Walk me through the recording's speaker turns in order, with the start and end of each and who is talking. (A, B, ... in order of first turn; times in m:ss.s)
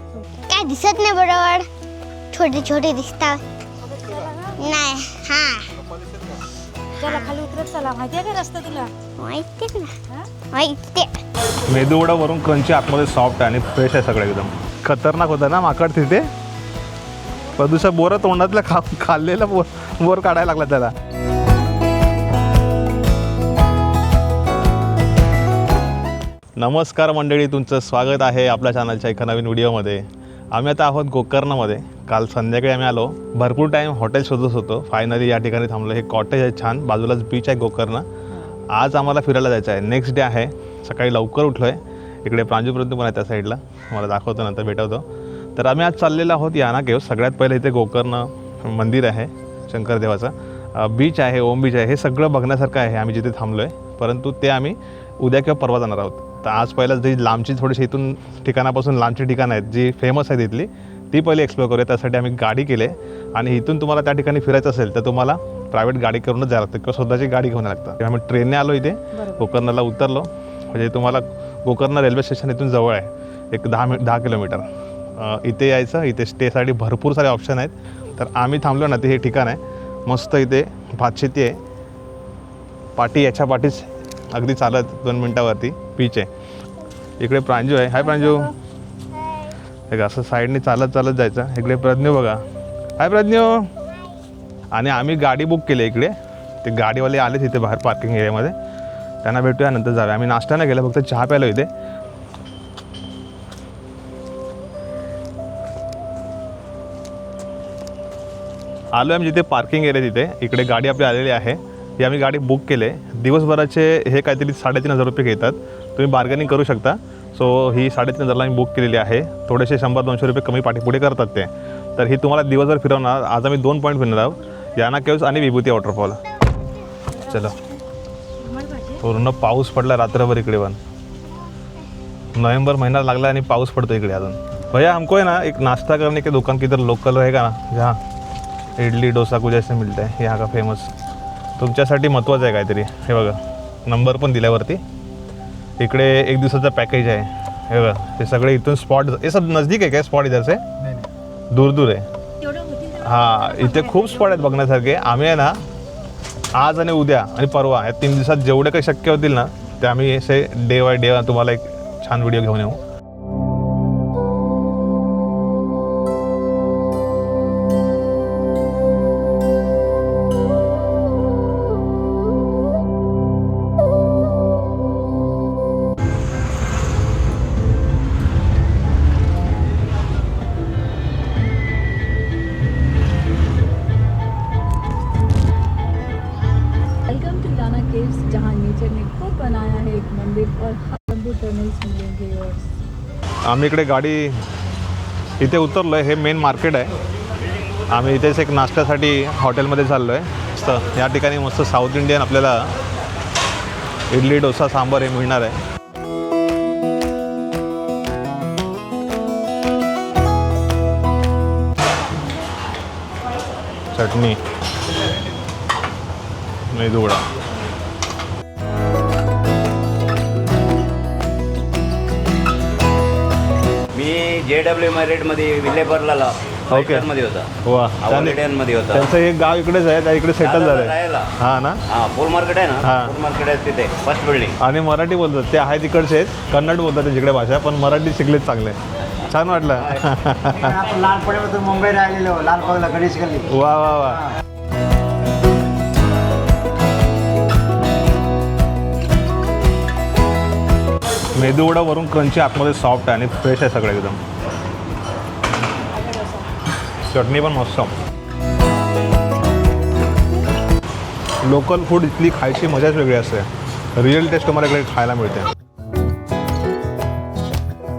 0:00.4-0:01.7 A
0:02.3-0:03.4 A
0:03.8-0:04.7 B
0:04.6-0:05.7 A
0:07.0-0:08.9 B
0:07.0-0:07.4 A
0:09.2-0:10.0 A
0:10.5-0:11.2 A
0:11.7-0:16.3 C
0:17.5-0:17.9 B
0:17.6-0:20.9 C
0:26.6-0:38.1 C
0:38.7-1:21.6 C
1:09.1-1:09.5 B
1:23.0-1:26.3 C
1:27.2-1:28.5 C
1:28.0-1:28.5 B
1:29.1-1:29.6 A
1:29.9-1:32.4 C
1:33.0-1:33.7 C
1:34.7-1:38.6 C
1:39.2-1:41.7 C
1:48.9-2:06.2 C
2:07.1-2:07.8 B
2:07.2-2:07.6 C
2:08.4-2:09.0 B
2:09.0-2:10.8 C
2:12.3-2:18.0 C
2:18.8-2:20.9 C
2:21.6-2:24.8 C
2:25.8-2:30.6 C
2:30.8-2:31.1 D
2:31.5-2:32.0 C
2:32.4-2:34.6 B
2:33.0-2:35.6 C
2:36.6-2:42.8 C
3:07.0-3:12.7 B
3:13.4-3:14.4 C
3:15.4-3:16.9 C
3:17.9-3:22.7 C
3:24.1-3:25.6 C
3:33.9-3:34.4 C
3:36.7-3:37.3 C
3:43.9-3:47.5 E
3:46.7-3:47.1 C
3:47.6-3:51.8 C
3:48.0-3:49.1 E
3:50.4-3:51.3 E
3:51.9-3:54.6 E
3:52.8-3:53.1 C
3:54.6-4:00.8 C
4:00.6-4:03.5 D
4:03.4-4:04.2 C
4:11.3-4:14.2 C
4:17.0-4:17.9 C
4:21.4-4:25.5 C